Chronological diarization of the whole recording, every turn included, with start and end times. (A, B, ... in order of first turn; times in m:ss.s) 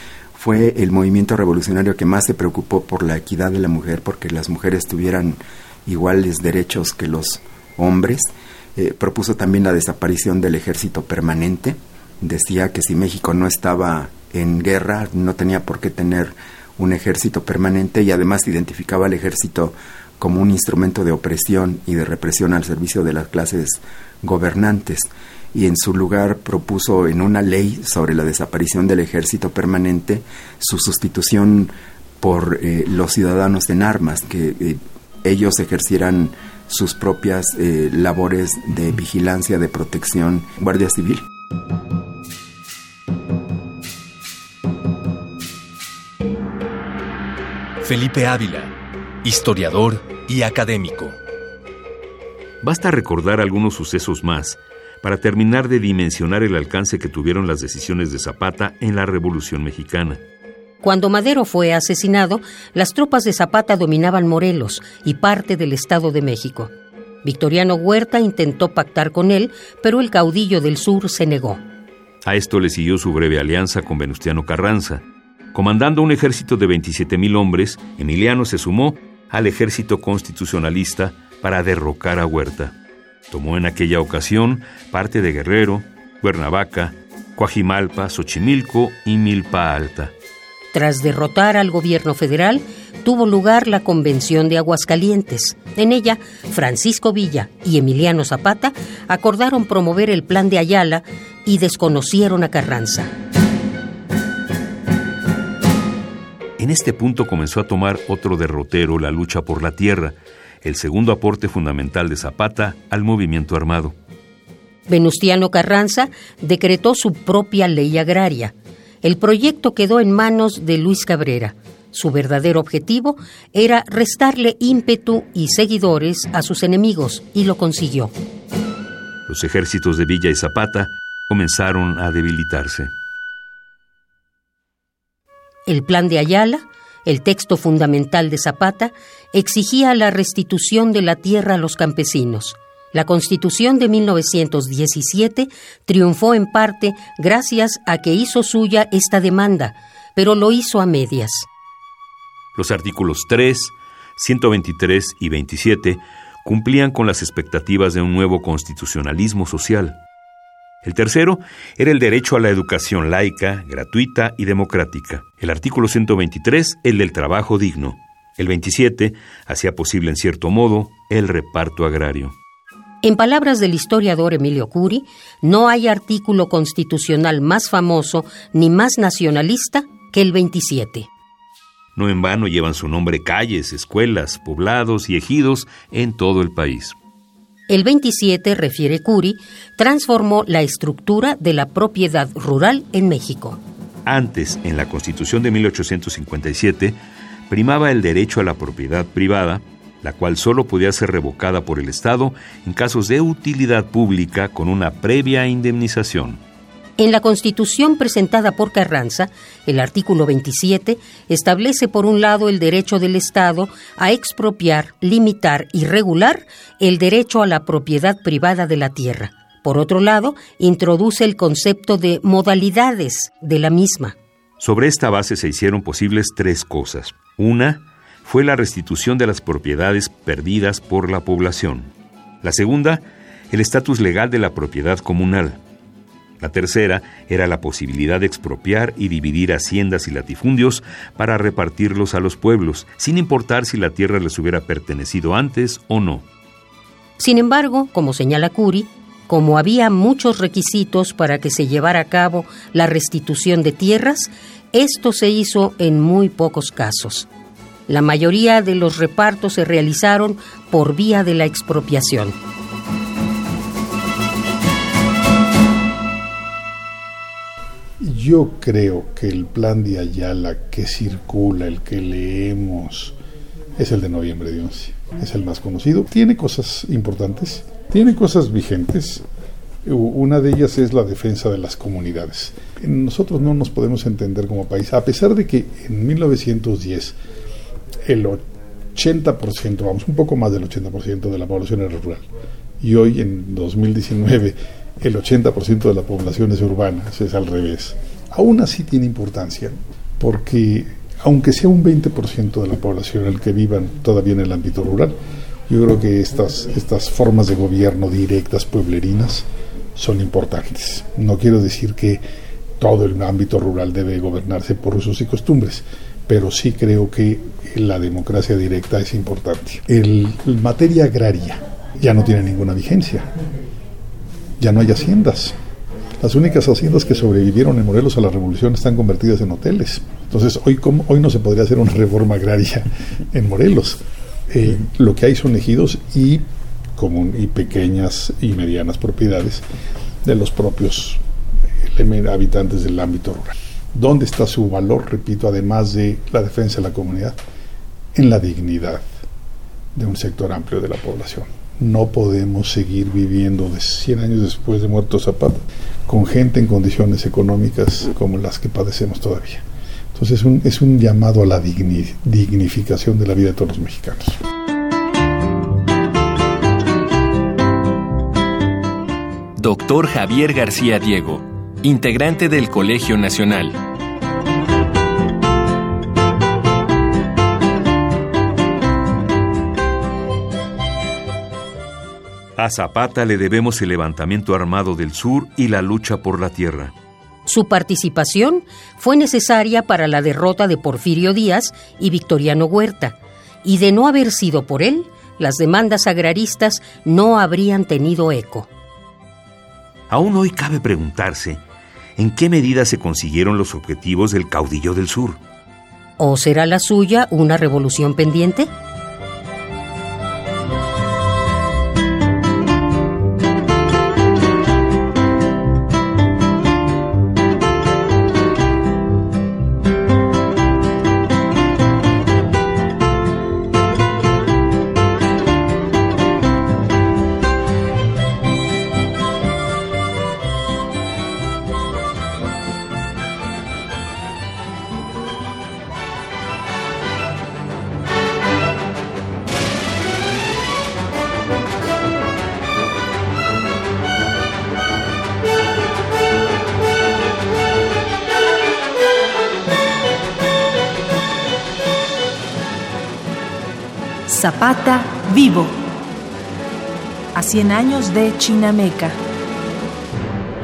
0:00.4-0:41.2 A
0:47.8-0:51.2 B
0:52.6-1:00.2 C
1:00.8-1:06.7 D
1:07.2-1:11.6 D
1:12.2-1:22.8 C
1:23.3-1:30.1 C
1:30.7-1:43.1 D
1:46.6-1:54.0 C
1:54.9-2:08.1 D
2:09.3-2:12.9 C
2:15.7-2:31.5 D
2:32.6-2:40.0 C
2:40.8-2:52.4 C
2:53.0-3:01.1 D
3:02.0-3:07.0 C
3:07.7-3:13.6 D
3:14.1-3:17.0 C
3:17.5-3:26.4 C
3:27.0-3:44.2 D
3:44.6-3:55.6 C
3:56.4-4:06.2 C
4:07.2-4:17.3 D
4:17.9-4:22.4 D
4:28.0-4:33.2 E
4:33.8-4:39.2 E
4:39.8-4:47.2 E
4:48.1-4:48.4 E
4:49.0-4:52.3 E
4:52.8-5:05.2 E
5:05.7-5:12.2 E
5:12.8-5:23.3 E
5:24.6-5:25.6 E
5:26.2-5:36.4 E
5:37.0-5:39.6 E
5:40.3-5:41.2 E
5:41.8-5:47.4 E
5:48.1-5:49.0 E
5:50.0-6:04.4 E
6:09.6-6:13.8 B
6:22.6-6:26.9 C
6:27.5-6:38.7 D
6:40.1-6:41.6 C
6:42.2-6:45.4 C
6:46.2-6:48.7 D
7:34.3-7:35.8 F
7:37.3-7:39.2 F